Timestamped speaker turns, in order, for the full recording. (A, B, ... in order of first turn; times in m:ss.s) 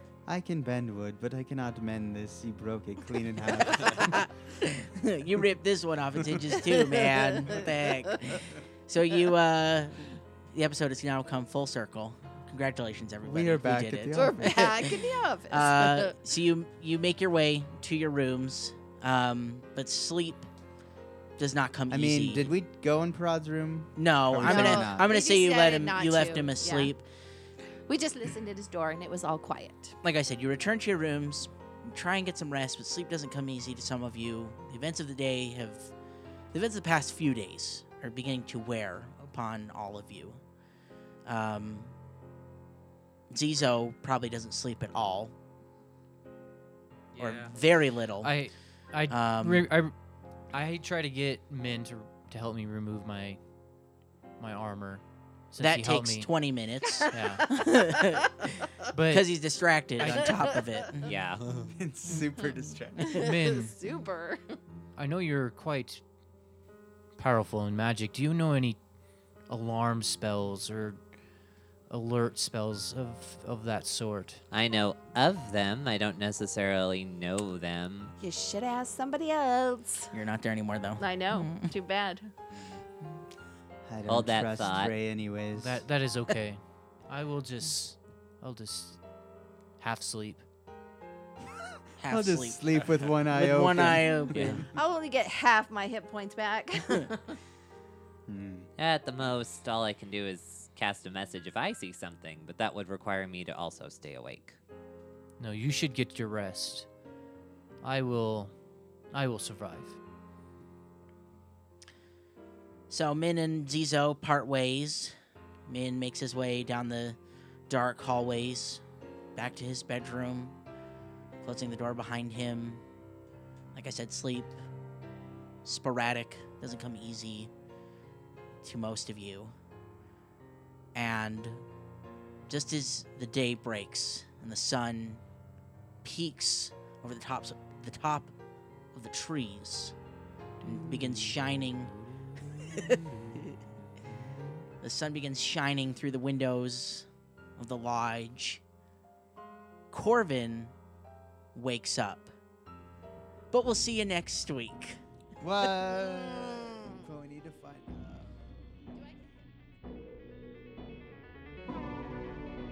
0:00.3-0:04.2 A
0:03.7-0:20.5 B
0:06.9-0:07.6 C
0:13.2-0:15.0 A
0:14.1-0:16.2 C
0:21.4-0:22.5 B
0:21.9-0:25.1 A
0:24.0-0:27.0 B
0:24.4-0:26.9 C
0:27.9-0:30.0 C
0:30.0-0:35.9 B
0:36.5-0:40.4 B
0:41.2-0:41.9 B
0:43.3-0:45.3 B
0:47.1-0:47.6 D
0:47.2-0:48.3 B
0:48.2-0:49.9 D
0:49.1-0:49.7 B
0:50.5-0:53.4 D
0:54.4-0:56.3 D
0:55.6-1:01.2 B
0:57.1-0:57.6 D
0:58.9-0:59.3 D
1:00.0-1:00.5 D
1:01.0-1:01.7 E
1:01.6-1:03.2 A
1:03.1-1:04.6 C
1:03.2-1:03.7 D
1:05.0-1:06.0 D
1:07.2-1:08.8 D
1:09.5-1:11.0 D
1:11.9-1:14.4 D
1:14.5-1:18.1 E
1:18.2-1:20.1 C
1:20.1-1:21.7 B
1:21.0-1:22.3 C
1:22.5-1:22.8 A
1:23.8-1:25.8 A
1:24.1-1:24.9 E
1:25.5-1:29.0 D
1:29.8-1:30.4 D
1:32.0-1:34.6 B
1:32.1-1:34.6 A
1:34.3-1:34.6 E
1:34.7-1:37.4 C
1:38.3-1:38.7 A
1:38.8-1:44.6 E
1:45.4-1:46.9 D
1:47.8-1:48.5 D
1:49.1-1:50.0 D
1:52.9-1:55.1 B
1:55.6-1:57.2 B
1:57.7-1:58.8 B
1:59.3-2:00.6 B
2:01.4-2:02.8 B
2:03.7-2:04.6 B
2:05.6-2:07.5 B
2:08.6-2:09.5 B
2:10.9-2:11.6 B
2:12.5-2:15.2 B
2:16.0-2:18.3 B
2:18.9-2:19.9 B
2:20.6-2:21.9 B
2:20.7-2:21.3 E
2:22.4-2:23.4 E
2:22.6-2:23.4 B
2:24.8-2:28.6 B
2:29.9-2:30.7 B
2:31.5-2:32.3 B
2:33.5-2:35.0 B
2:35.4-2:38.3 A